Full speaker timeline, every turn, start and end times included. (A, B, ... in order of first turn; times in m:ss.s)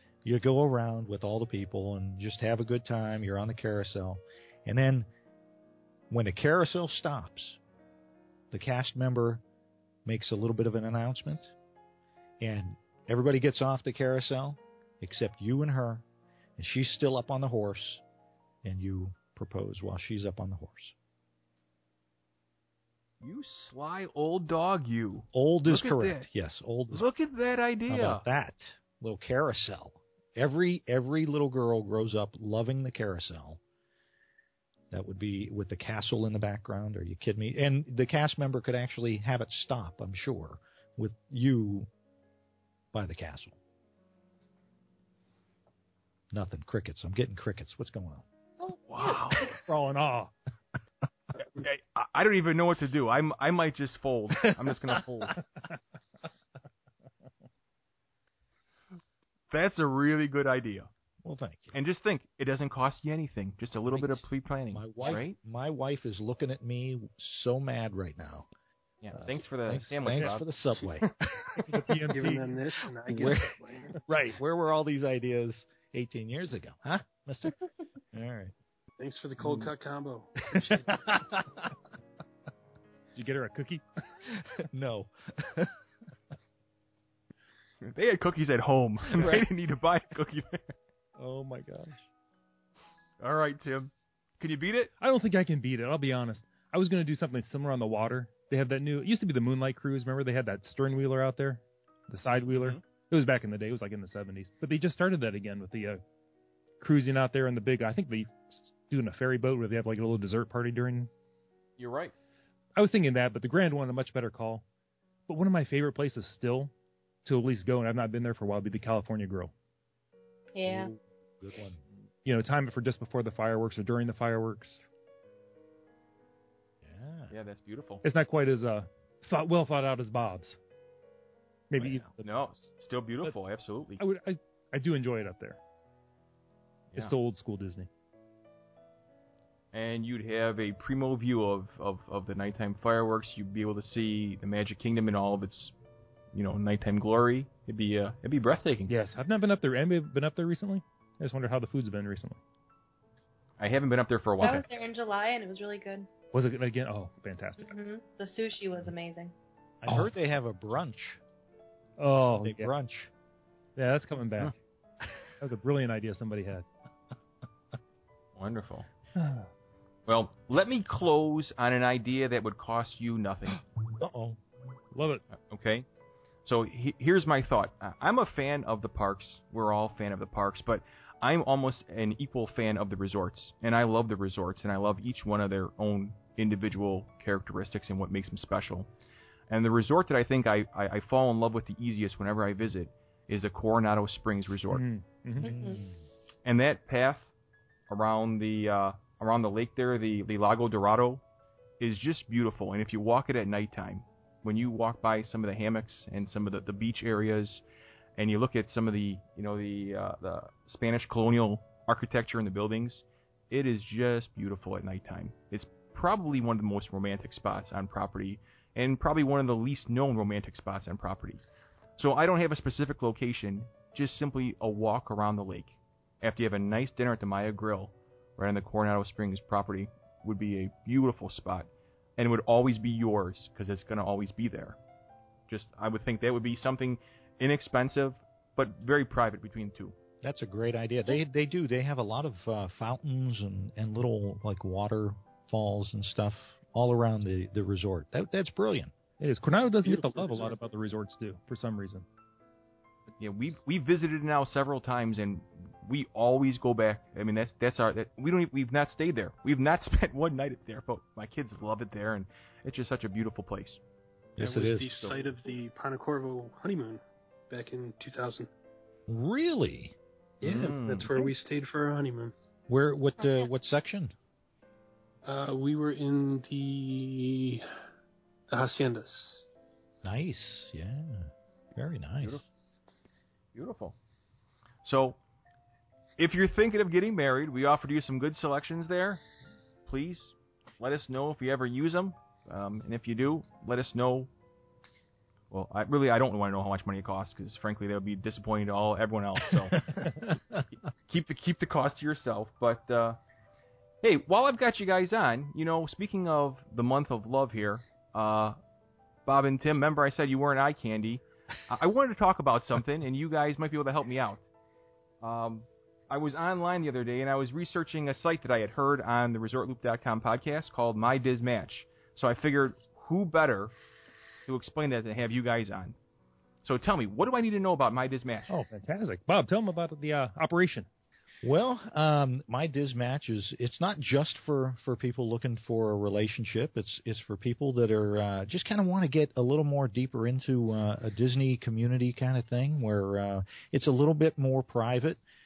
0:00.2-0:05.1 A
0:06.1-0:07.6 A
0:08.5-0:09.4 A
0:10.0-0:11.5 A
0:12.4-0:16.0 A
0:16.6-0:18.0 A
0:18.6-0:20.9 A
0:23.2-0:26.2 B
0:25.3-0:27.0 A
0:26.9-0:28.2 B
0:27.9-0:33.6 A
0:34.9-0:41.9 A
0:42.9-0:43.6 A
0:46.3-0:48.2 A
0:48.8-0:49.5 B
0:49.3-0:50.3 C
0:51.4-0:55.4 B
0:54.5-0:55.3 A
0:59.5-1:00.9 B
1:01.2-1:01.8 A
1:01.7-1:05.4 B
1:03.9-1:08.5 A
1:09.0-1:11.1 B
1:09.1-1:12.4 A
1:11.7-1:12.5 C
1:12.1-1:13.9 D
1:13.1-1:18.5 A
1:19.0-1:21.2 D
1:20.5-1:21.8 A
1:23.1-1:23.8 C
1:24.3-1:25.8 A
1:27.8-1:30.7 B
1:29.2-1:29.4 C
1:31.2-1:32.0 C
1:33.2-1:34.9 B
1:35.0-1:46.0 C
1:42.5-1:42.8 B
1:46.8-1:51.1 C
1:51.8-1:52.1 B
1:52.8-1:54.6 C
1:55.3-1:56.7 C
1:57.2-1:59.5 C
2:00.5-2:00.9 E
2:00.6-2:01.8 A
2:02.2-2:04.9 C
2:06.8-2:07.3 A
2:07.3-2:08.0 B
2:08.0-2:10.6 C
2:11.7-2:12.2 C
2:11.8-2:12.0 A
2:12.2-2:14.0 B
2:14.0-2:15.6 C
2:16.9-2:17.9 C
2:19.7-2:25.7 B
2:26.3-2:28.9 B
2:28.9-2:32.4 C
2:33.6-2:34.6 B
2:34.4-2:36.1 E
2:36.3-2:37.7 C
2:37.6-2:39.3 E
2:39.8-2:41.2 A
2:42.0-2:42.7 C
2:42.2-2:43.1 A
2:43.8-2:44.5 C
2:45.4-2:46.6 C
2:48.3-2:48.9 B
2:49.2-2:49.5 C
2:50.1-2:53.6 B
2:54.0-2:54.4 A
2:54.9-2:55.2 C
2:55.3-2:55.8 B
2:56.4-3:08.9 B
3:09.5-3:14.8 B
3:14.7-3:15.5 C
3:15.4-3:15.8 E
3:15.4-3:16.0 A
3:16.4-3:17.3 B
3:17.9-3:21.2 B
3:21.8-3:27.6 B
3:28.2-3:41.4 B
3:42.0-3:54.8 B
3:55.5-4:00.0 B
4:00.2-4:08.9 A
4:09.2-4:12.0 C
4:09.8-4:10.5 D
4:13.2-4:23.8 B
4:24.4-4:25.0 A
4:24.4-4:28.5 D
4:29.1-4:29.9 A
4:30.4-4:32.3 D
4:30.4-4:31.1 B
4:32.7-4:34.1 A
4:35.2-4:37.6 D
4:38.5-4:39.4 D
4:40.0-4:42.4 A
4:43.5-4:44.0 B
4:44.8-4:45.2 B
4:46.2-4:49.2 B
4:49.9-4:54.3 B
4:55.5-4:59.9 B
4:59.8-5:00.6 A
5:01.1-5:03.2 B
5:04.0-5:08.6 B
5:09.2-5:14.4 B
5:15.2-5:23.7 B
5:24.4-5:26.0 B
5:26.6-5:28.5 B
5:28.5-5:30.9 C
5:31.4-5:45.2 A